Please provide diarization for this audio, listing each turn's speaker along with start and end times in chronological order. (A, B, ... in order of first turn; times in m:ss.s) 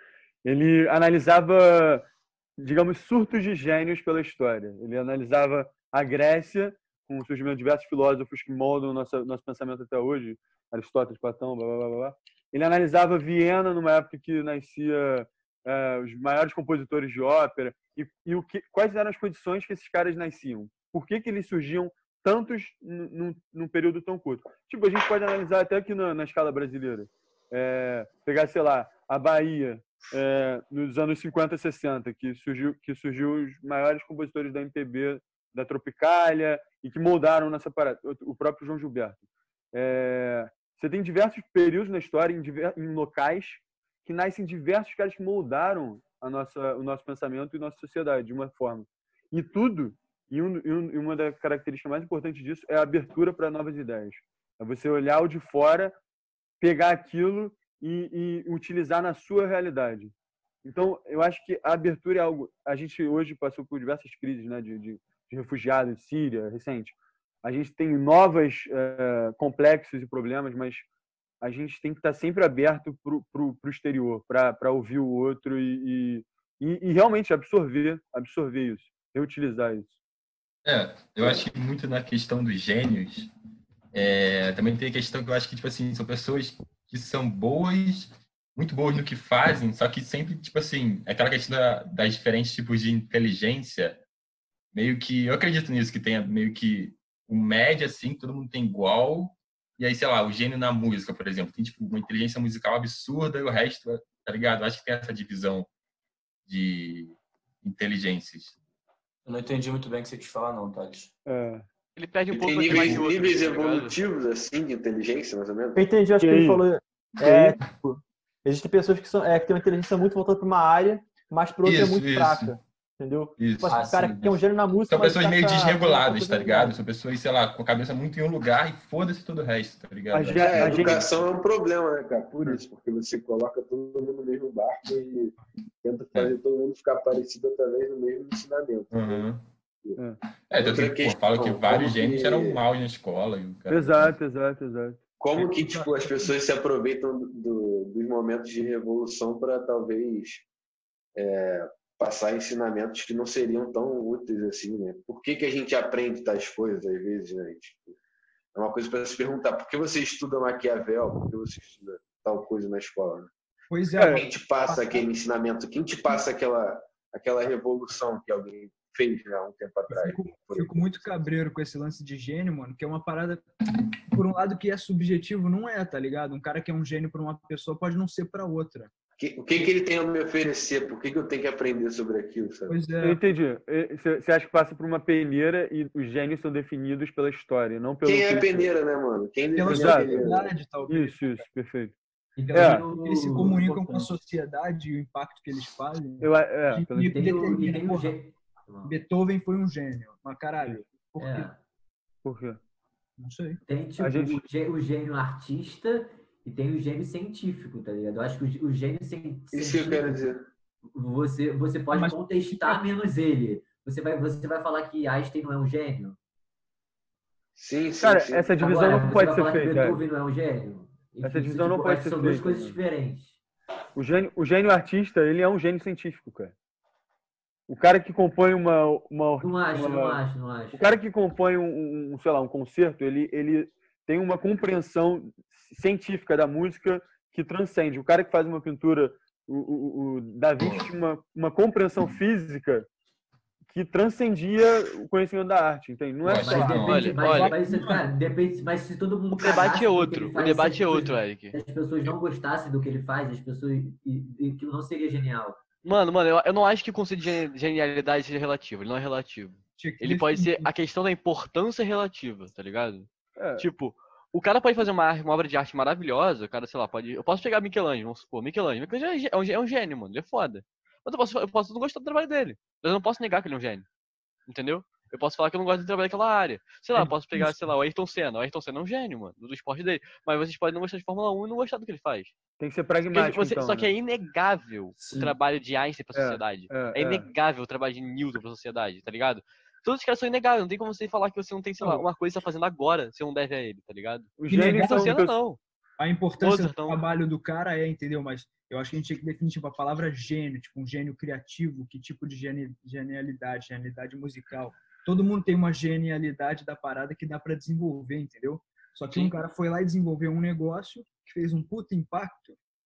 0:00.4-0:02.1 A
0:02.6-0:39.2 A
0:39.7-0:56.0 A
0:56.6-1:00.1 A
1:00.6-1:10.8 A
1:11.4-1:20.0 A
1:20.6-1:23.3 B
1:23.9-1:34.0 B
1:34.7-1:45.7 B
1:46.5-1:48.6 B
1:49.2-1:51.1 C
1:51.3-1:51.7 A
1:52.0-1:54.0 D
1:52.3-1:55.8 E
1:52.7-1:53.0 B
1:55.8-2:06.8 F
1:56.2-1:56.6 A
1:57.2-1:57.7 A
2:01.6-2:02.6 B
2:03.4-2:10.9 B
2:03.7-2:04.3 C
2:10.1-2:11.1 A
2:10.4-2:19.3 E
2:18.9-2:19.5 B
2:20.5-2:24.1 B
2:20.5-2:22.6 E
2:23.7-2:25.0 A
2:25.2-2:30.5 E
2:25.4-2:26.4 G
2:31.2-2:38.0 E
2:38.6-2:43.3 E
2:43.7-2:45.0 G
2:44.0-2:44.2 A
2:44.1-2:51.0 E
2:49.9-2:53.5 G
2:54.1-2:58.9 G
2:59.2-3:02.8 E
3:02.7-3:03.2 G
3:03.0-3:08.7 A
3:08.0-3:10.5 E
3:09.5-3:11.5 G
3:09.7-3:10.2 A
3:10.9-3:12.0 A
3:12.4-3:14.2 H
3:12.5-3:18.2 G
3:12.6-3:12.9 A
3:16.2-3:17.8 A
3:17.0-3:18.9 H
3:18.8-3:21.5 G
3:21.2-3:21.6 H
3:22.2-3:22.6 A
3:23.2-3:23.6 G
3:23.6-3:30.2 H
3:24.0-3:24.4 A
3:29.5-3:30.4 E
3:30.9-3:36.2 H
3:31.9-3:32.8 G
3:37.6-3:38.5 E
3:38.0-3:40.0 A
3:38.6-3:43.4 H
3:41.2-3:42.8 A
3:44.0-3:46.5 A
3:47.7-3:50.2 A
3:49.4-3:51.0 H
3:50.7-4:02.9 A
4:00.6-4:00.9 B
4:03.7-4:06.8 A
4:06.2-4:07.2 B
4:06.4-4:15.6 H
4:06.8-4:07.6 D
4:07.2-4:08.1 G
4:09.3-4:11.6 D
4:15.8-4:33.9 D
4:19.8-4:20.7 G
4:23.4-4:23.7 A
4:34.5-4:42.4 D
4:37.0-4:37.5 A
4:42.6-4:43.9 A
4:43.1-4:55.6 D
4:45.0-4:45.4 C
4:46.2-4:47.3 A
4:51.8-4:52.0 G
4:54.4-4:55.4 A
4:54.5-4:55.2 G
4:56.0-5:12.6 G
4:56.4-4:57.0 D
5:09.1-5:09.4 D